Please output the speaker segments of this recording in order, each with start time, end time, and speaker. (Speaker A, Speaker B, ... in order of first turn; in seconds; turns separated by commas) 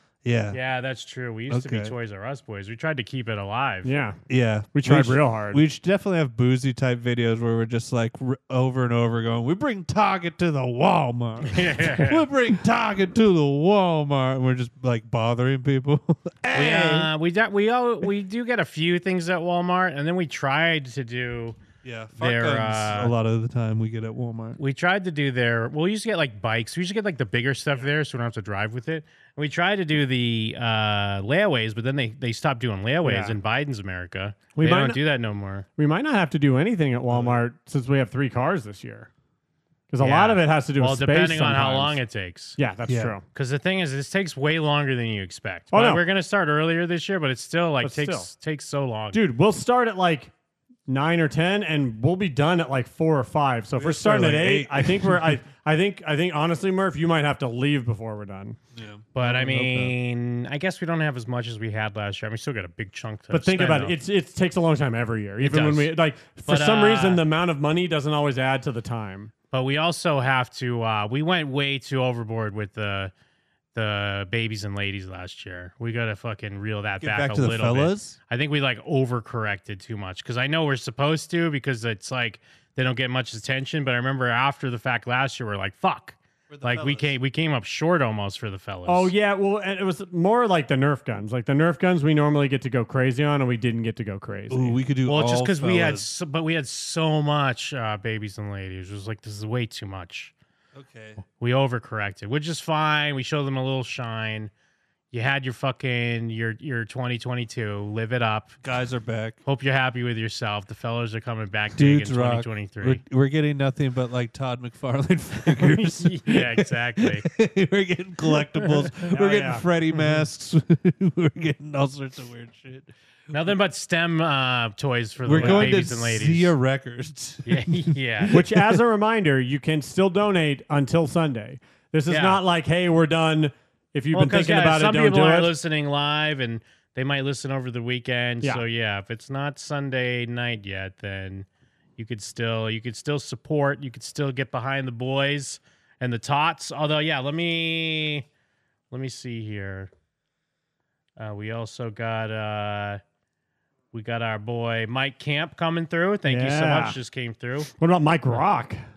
Speaker A: 0.2-0.6, Speaker B: 0.5-3.9, Speaker A: 1.5-1.9, Speaker C: 3.8-4.2, Speaker A: 4.3-17.1, Speaker C: 4.7-5.6, Speaker B: 11.4-12.2, Speaker B: 16.5-21.6, Speaker A: 21.8-24.6, Speaker B: 22.2-23.1, Speaker B: 24.6-35.6, Speaker C: 33.0-33.4, Speaker C: 34.5-35.0, Speaker C: 35.8-39.1, Speaker A: 37.1-37.4, Speaker C: 39.9-42.0, Speaker B: 40.0-42.6, Speaker C: 42.6-43.2, Speaker A: 42.9-43.2, Speaker B: 43.3-49.2, Speaker C: 45.7-46.0, Speaker C: 47.8-48.3, Speaker C: 49.1-50.3, Speaker C: 50.9-58.6, Speaker A: 53.8-55.4, Speaker A: 58.7-60.0, Speaker B: 59.1-63.9, Speaker C: 63.3-69.3, Speaker B: 65.4-65.9, Speaker B: 66.5-67.2, Speaker B: 69.5-73.1, Speaker B: 73.7-89.1, Speaker A: 77.0-78.2, Speaker A: 86.5-87.1, Speaker C: 88.9-94.8, Speaker A: 94.5-96.1, Speaker B: 95.0-100.3, Speaker A: 100.7-101.2, Speaker B: 101.4-104.5, Speaker B: 105.1-108.6, Speaker A: 108.6-109.4, Speaker B: 109.4-113.0, Speaker A: 111.8-122.9, Speaker B: 115.6-117.2, Speaker C: 119.1-119.6, Speaker B: 119.9-120.2, Speaker B: 123.3-126.5, Speaker A: 125.2-128.8, Speaker C: 125.3-125.7, Speaker B: 127.5-128.4, Speaker C: 128.3-135.5, Speaker B: 132.1-132.4, Speaker B: 134.1-148.2, Speaker B: 148.9-149.9, Speaker B: 151.2-153.0, Speaker B: 153.9-157.7, Speaker C: 156.2-157.0, Speaker C: 157.8-158.8